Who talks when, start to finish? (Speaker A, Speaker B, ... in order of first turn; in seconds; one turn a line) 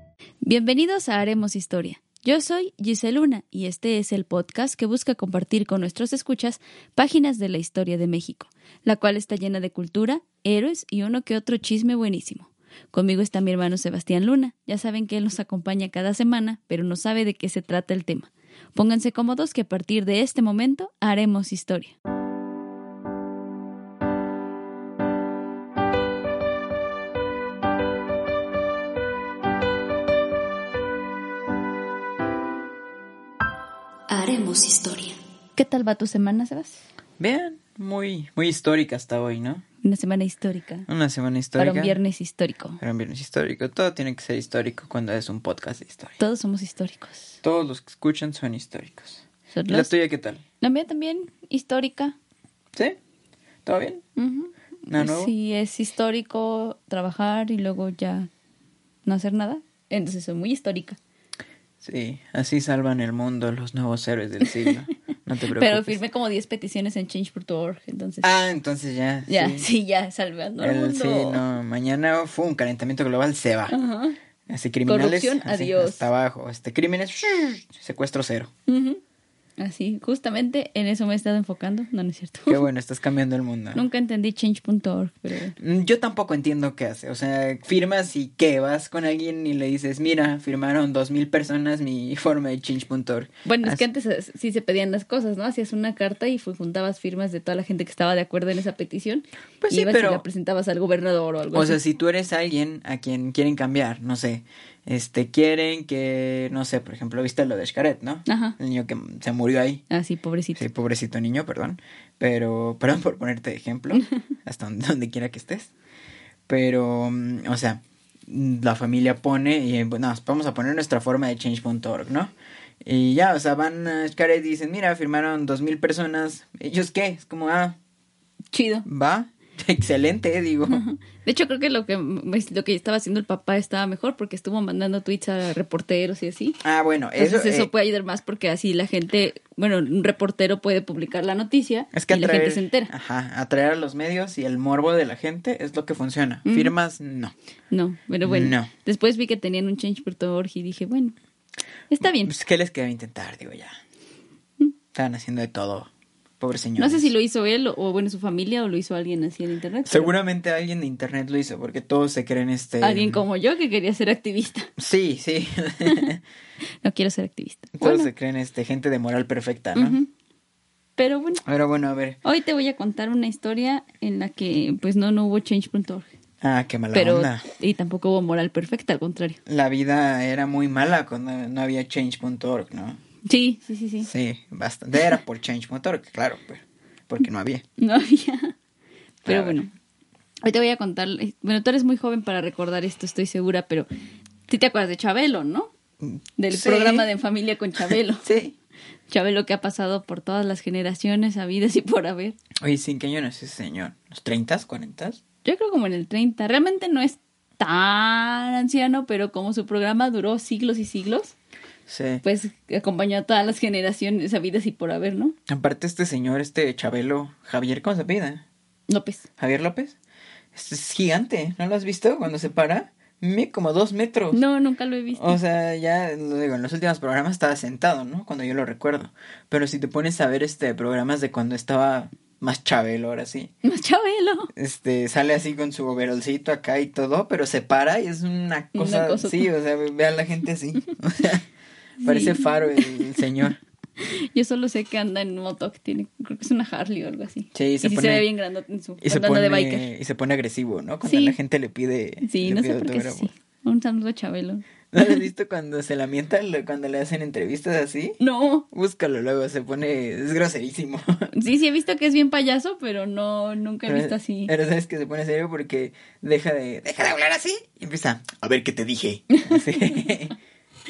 Speaker A: 0.4-21.9
Speaker A: 34.1-36.8
Speaker B: 37.2-39.6
Speaker A: 39.8-40.9
Speaker B: 40.9-42.0
Speaker A: 41.6-42.8
Speaker B: 42.8-46.2
Speaker A: 46.2-47.4
Speaker B: 47.4-50.4
Speaker A: 49.5-49.9
Speaker A: 50.6-52.1
Speaker B: 53.7-54.0
Speaker A: 54.2-58.3
Speaker B: 54.9-55.3
Speaker A: 59.0-61.0
Speaker B: 61.8-66.0
Speaker A: 65.5-68.3
Speaker B: 68.2-69.7
Speaker A: 69.3-71.4
Speaker B: 70.6-73.8
Speaker A: 73.7-74.2
Speaker B: 74.5-78.5
Speaker A: 74.9-76.0
Speaker A: 78.7-79.0
Speaker A: 79.6-82.6
Speaker B: 82.5-83.8
Speaker A: 83.7-85.6
Speaker B: 85.6-93.8
Speaker A: 93.5-101.8
Speaker B: 99.6-100.2
Speaker B: 101.5-109.8
Speaker A: 108.3-108.5
Speaker A: 109.9-110.6
Speaker B: 110.5-115.7
Speaker B: 116.5-122.3
Speaker B: 122.8-127.8
Speaker A: 128.5-128.8
Speaker B: 128.8-130.8
Speaker A: 130.7-136.6
Speaker B: 136.6-137.7
Speaker A: 137.2-142.9
Speaker B: 141.9-147.3
Speaker A: 146.4-146.7
Speaker A: 147.7-151.1
Speaker B: 148.2-148.7
Speaker A: 151.9-152.3
Speaker B: 152.2-153.8
Speaker B: 154.9-155.9
Speaker B: 156.4-157.1
Speaker A: 156.8-160.1
Speaker B: 159.8-163.2
Speaker A: 162.8-164.7
Speaker B: 164.8-166.2
Speaker A: 165.8-166.1
Speaker A: 166.8-168.1
Speaker B: 167.8-170.0
Speaker A: 169.7-170.1
Speaker A: 171.0-171.4
Speaker B: 171.4-172.2
Speaker A: 172.2-176.1
Speaker B: 176.4-177.4
Speaker A: 176.9-179.4
Speaker B: 179.5-183.0
Speaker A: 183.2-184.1
Speaker B: 184.0-187.6
Speaker A: 187.8-188.5
Speaker A: 189.2-189.7
Speaker B: 189.2-189.6
Speaker A: 190.4-193.9
Speaker A: 194.5-195.7
Speaker B: 196.0-197.1
Speaker A: 196.4-198.2
Speaker B: 197.8-198.5
Speaker A: 199.1-202.4
Speaker B: 202.6-205.2
Speaker A: 205.4-211.3
Speaker B: 211.9-212.2
Speaker A: 212.2-215.3
Speaker B: 215.5-218.4
Speaker A: 218.9-219.2
Speaker B: 219.4-219.9
Speaker B: 220.5-224.4
Speaker A: 224.3-225.4
Speaker B: 225.1-233.5
Speaker A: 233.6-234.5
Speaker B: 234.6-241.4
Speaker A: 238.7-239.5
Speaker A: 242.0-243.2
Speaker B: 242.0-243.6
Speaker A: 244.0-249.9
Speaker B: 247.5-248.3
Speaker B: 249.0-253.3
Speaker A: 251.1-251.3
Speaker A: 252.2-254.6
Speaker B: 254.9-258.2
Speaker A: 258.2-258.7
Speaker B: 258.7-261.3
Speaker A: 261.3-264.5
Speaker B: 263.9-270.4
Speaker A: 269.3-270.1